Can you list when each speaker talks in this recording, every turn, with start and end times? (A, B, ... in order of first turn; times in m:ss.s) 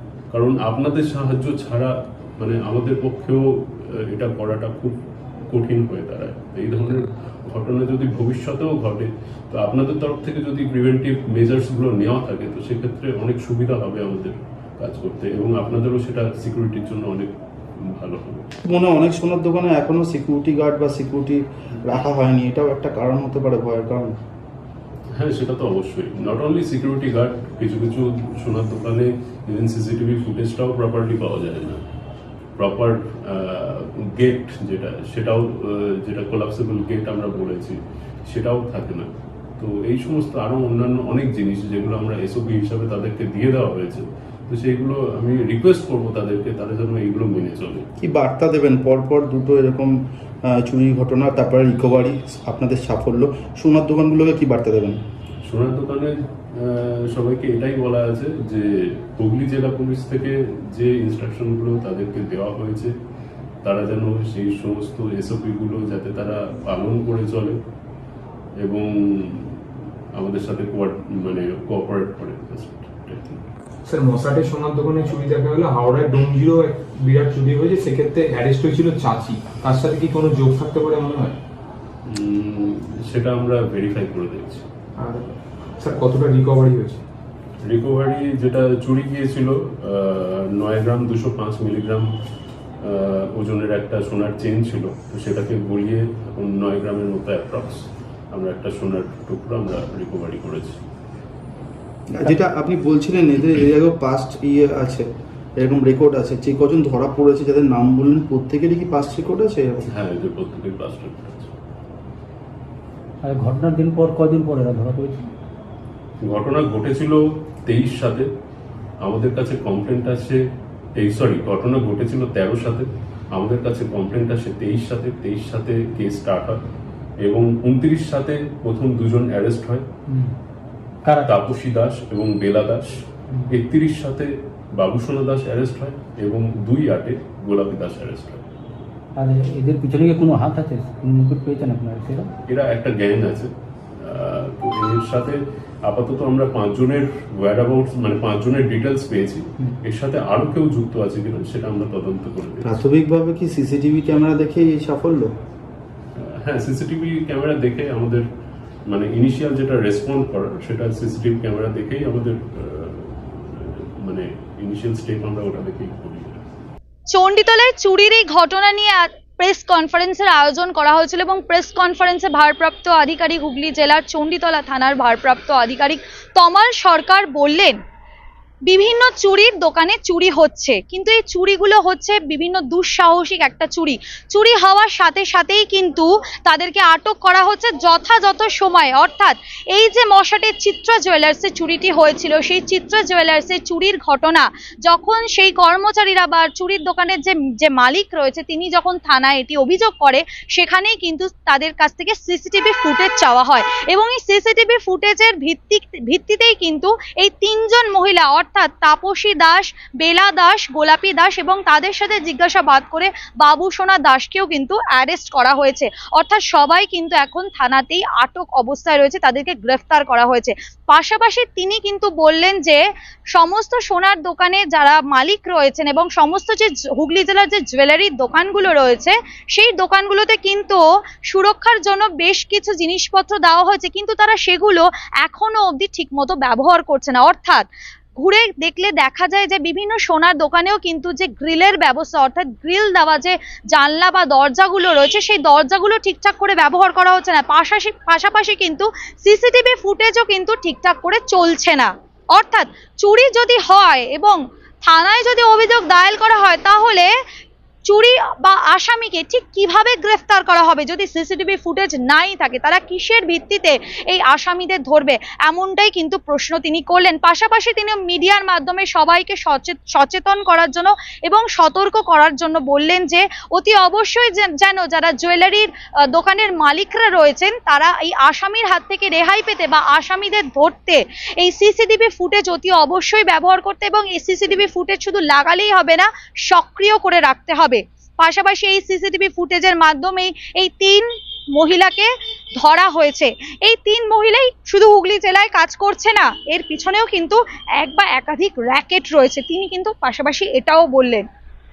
0:00.3-0:18.5 A
0:18.6-0:24.2 B
0:25.2-0:31.8 A
0:32.6-0:39.1 A
0:39.6-0:47.9 A
0:48.0-0:55.0 B
0:55.4-1:02.9 A
1:03.6-1:07.6 A
1:08.6-1:09.6 A
1:10.2-1:13.4 A
1:13.9-1:21.4 C
1:22.1-1:24.7 A
1:25.0-1:27.0 C
1:27.6-1:32.1 A
1:32.8-1:40.8 A
1:42.1-1:45.0 B
1:45.6-1:49.9 B
1:49.8-1:51.5 A
1:53.2-1:55.3 D
1:56.2-1:58.3 A
1:59.0-2:00.4 A
2:01.0-2:06.6 A
2:07.2-2:09.8 A
2:10.1-2:10.4 D
2:11.0-2:11.3 D
2:11.2-2:18.5 A
2:19.2-2:22.3 D
2:22.5-2:32.8 A
2:32.6-2:35.3 B
2:36.2-2:38.2 A
2:38.9-2:46.4 A
2:47.1-2:57.8 E
2:58.7-3:42.8 E
3:43.3-3:57.6 E
3:58.2-4:17.1 E
4:17.9-5:01.2 E